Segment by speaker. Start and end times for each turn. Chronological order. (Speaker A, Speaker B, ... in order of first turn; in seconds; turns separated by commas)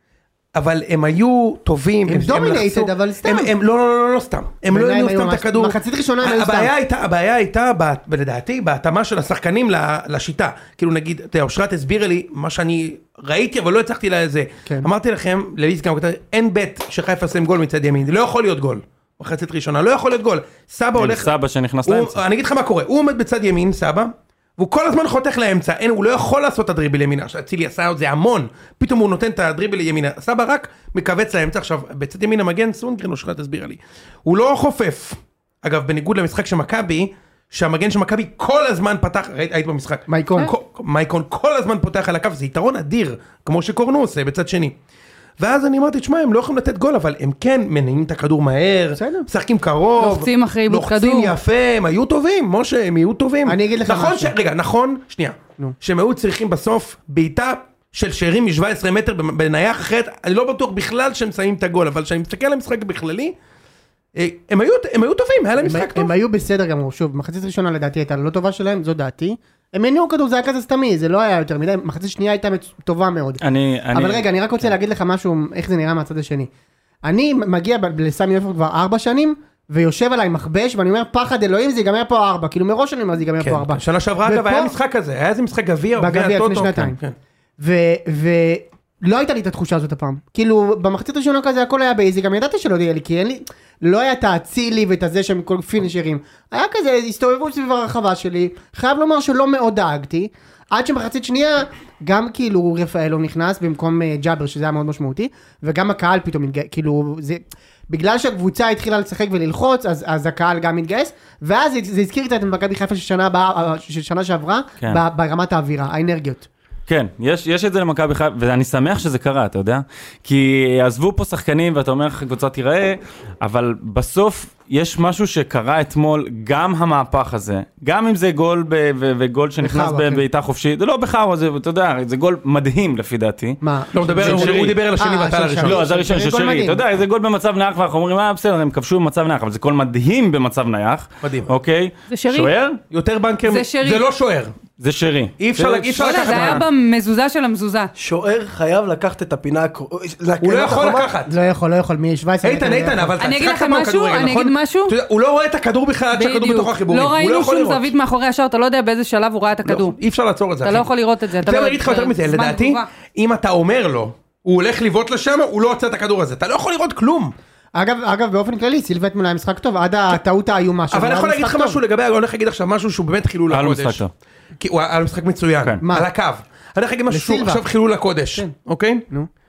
Speaker A: 0.5-21.3, Speaker B: 2.0-3.5, Speaker B: 4.7-6.7, Speaker C: 21.0-22.2, Speaker A: 21.9-44.7, Speaker B: 40.1-40.5, Speaker A: 45.4-63.3, Speaker B: 49.0-49.3, Speaker D: 50.0-51.4, Speaker B: 53.5-54.3, Speaker A: 64.1-66.1, Speaker B: 65.6-73.4, Speaker C: 73.4-74.3, Speaker B: 73.9-76.5, Speaker B: 77.0-84.8, Speaker A: 83.4-87.1, Speaker B: 86.0-87.0, Speaker B: 87.6-116.5, Speaker C: 116.9-134.8, Speaker B: 129.6-130.2, Speaker B: 133.6-136.8, Speaker A: 133.9-135.8, Speaker C: 135.6-142.8, Speaker A: 141.2-141.5, Speaker D: 142.1-142.5, Speaker A: 142.9-144.5, Speaker D: 143.4-144.0, Speaker C: 144.8-146.6, Speaker A: 145.4-146.6, Speaker D: 145.9-147.9, Speaker E: 147.9-151.1, Speaker A: 150.4-151.3, Speaker B: 151.3-153.1, Speaker A: 152.4-157.9, Speaker D: 153.2-154.9, Speaker D: 156.1-159.9, Speaker A: 159.6-160.9, Speaker D: 160.6-162.9, Speaker A: 161.4-167.3, Speaker B: 167.7-171.8, Speaker A: 170.9-174.0, Speaker C: 173.5-174.1, Speaker A: 174.6-179.1, Speaker B: 175.8-176.1, Speaker B: 177.1-177.6